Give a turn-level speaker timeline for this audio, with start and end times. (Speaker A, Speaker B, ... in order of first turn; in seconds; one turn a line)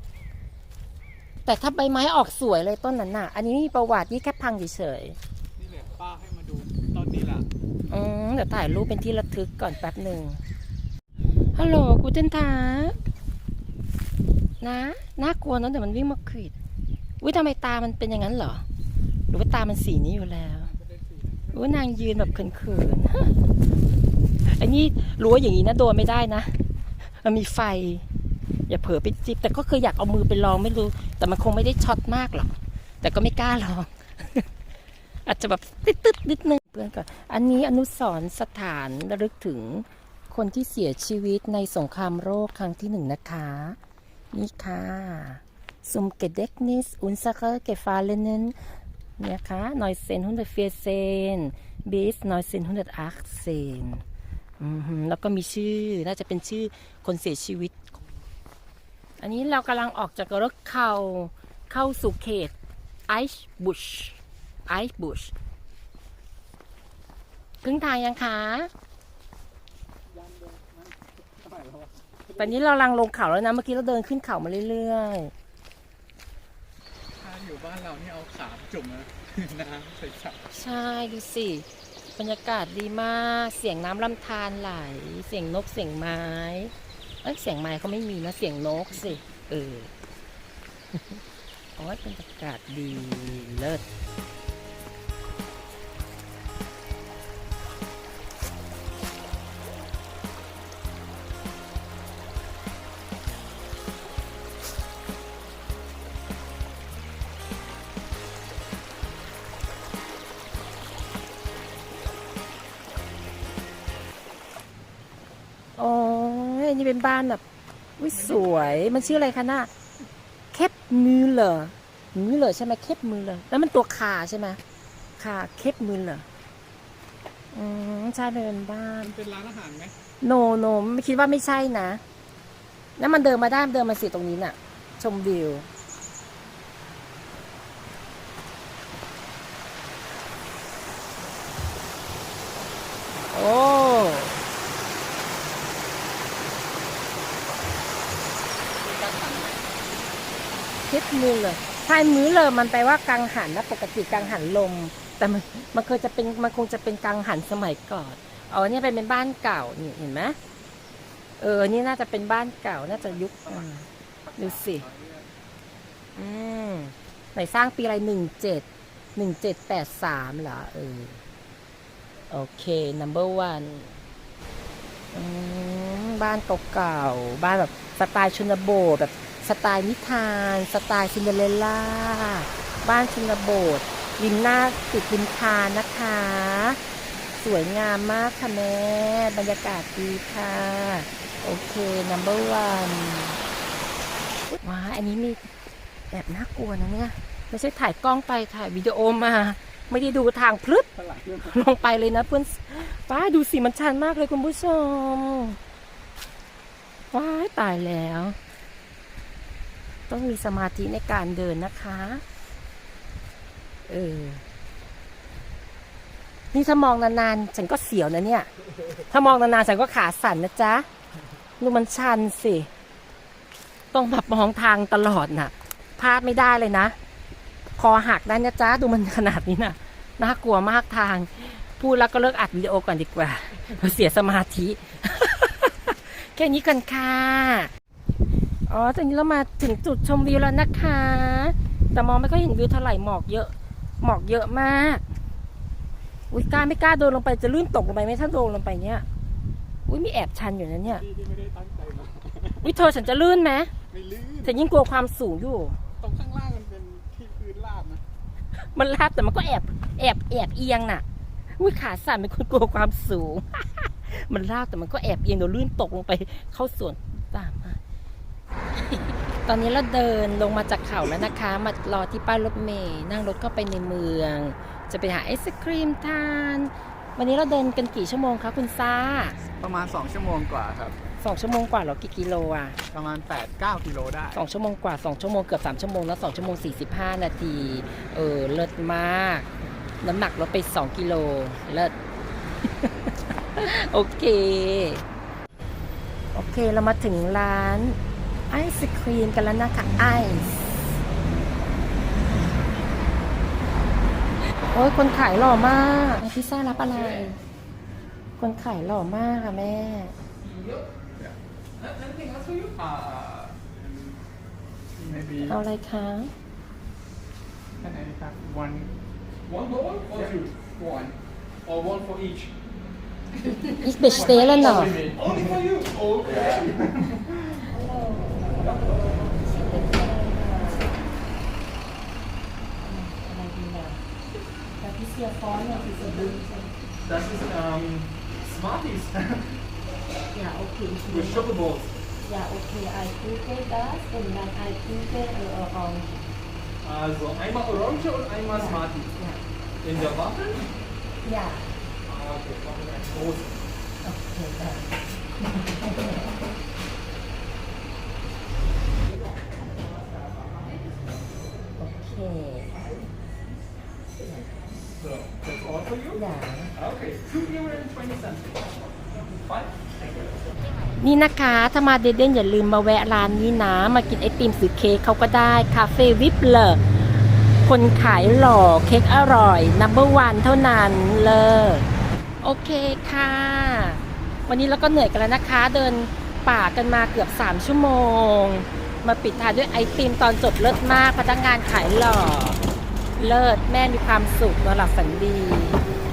Speaker A: 1.4-5.2
Speaker B: 5.6-7.5
Speaker A: 7.9-10.4
Speaker A: 11.5-13.0
Speaker A: 14.6-16.5
Speaker A: 17.2-18.6
Speaker A: 19.3-20.7
Speaker B: 20.6-22.5
Speaker A: 21.5-23.4
Speaker A: 24.4-28.1
Speaker A: 28.7-34.5
Speaker A: 35.2-43.8
Speaker A: 44.3-48.6
Speaker A: 49.2-54.0
Speaker A: 54.6-57.7
Speaker A: 59.2-62.5
Speaker A: 63.1-65.3
Speaker A: 67.6-68.7
Speaker B: 70.1-72.6
Speaker A: 72.4-75.3
Speaker B: 77.2-80.5
Speaker A: 80.5-89.9
Speaker A: 91.8-93.8
Speaker A: 115.8-117.4
Speaker A: 118.0-119.7
Speaker B: 118.1-119.4
Speaker A: 120.5-124.6
Speaker A: 125.2-126.2
Speaker A: 127.5-129.1
Speaker B: 129.0-129.9
Speaker A: 130.2-132.0
Speaker A: 133.0-135.7
Speaker A: 143.3-144.4
Speaker B: 148.8-149.8
Speaker A: 150.8-160.4
Speaker B: 154.1-154.4
Speaker A: 161.4-164.8
Speaker B: 162.9-163.7
Speaker B: 164.2-165.3
Speaker A: 166.2-171.2
Speaker A: 172.3-173.9
Speaker A: 175.1-186.8
Speaker A: 187.4-193.4
Speaker A: 194.6-195.4
Speaker A: 196.1-200.9
Speaker B: 200.9-201.7
Speaker A: 201.4-205.6
Speaker A: 207.1-208.4
Speaker A: 210.1-212.2
Speaker A: 213.9-214.4
Speaker A: 216.5-218.5
Speaker A: 219.1-220.9
Speaker A: 221.6-222.7
Speaker A: 223.9-226.9
Speaker A: 227.8-237.7
Speaker A: 238.7-245.0
Speaker A: 246.3-249.0
Speaker A: 249.9-251.0
Speaker B: 250.8-252.9
Speaker A: 252.6-253.7
Speaker B: 253.9-254.7
Speaker A: 254.4-255.8
Speaker B: 256.0-258.0
Speaker A: 258.6-261.0
Speaker A: 261.5-267.8
Speaker A: 268.8-279.4
Speaker B: 279.6-281.0
Speaker A: 281.2-282.8
Speaker B: 282.9-284.4
Speaker A: 284.3-289.5
Speaker A: 290.0-291.9
Speaker A: 292.6-295.0
Speaker A: 296.3-298.0
Speaker A: 298.5-300.8
Speaker A: 304.7-307.4
Speaker B: 306.9-307.2
Speaker A: 308.4-310.1
Speaker C: 310.4-310.9
Speaker C: 311.8-313.2
Speaker B: 312.9-314.1
Speaker B: 314.9-315.6
Speaker A: 315.4-316.3
Speaker B: 317.8-318.9
Speaker C: 319.4-320.9
Speaker B: 320.1-321.1
Speaker C: 321.6-322.5
Speaker A: 323.7-325.0
Speaker C: 324.1-326.7
Speaker B: 324.8-325.7
Speaker B: 326.6-327.6
Speaker A: 327.6-331.0
Speaker A: 332.8-334.0
Speaker A: 334.8-336.7
Speaker C: 337.0-339.6
Speaker A: 340.3-341.6
Speaker C: 341.0-342.0
Speaker A: 342.2-346.1
Speaker C: 346.8-349.1
Speaker A: 348.4-349.4
Speaker C: 349.8-350.7
Speaker A: 351.2-351.7
Speaker C: 352.0-353.6
Speaker A: 354.0-354.9
Speaker A: 355.7-356.2
Speaker A: 361.8-362.9
Speaker C: 365.0-366.2
Speaker A: 366.1-366.8
Speaker C: 366.7-370.3
Speaker A: 370.9-381.9
Speaker A: 382.4-392.6
Speaker A: 393.1-395.8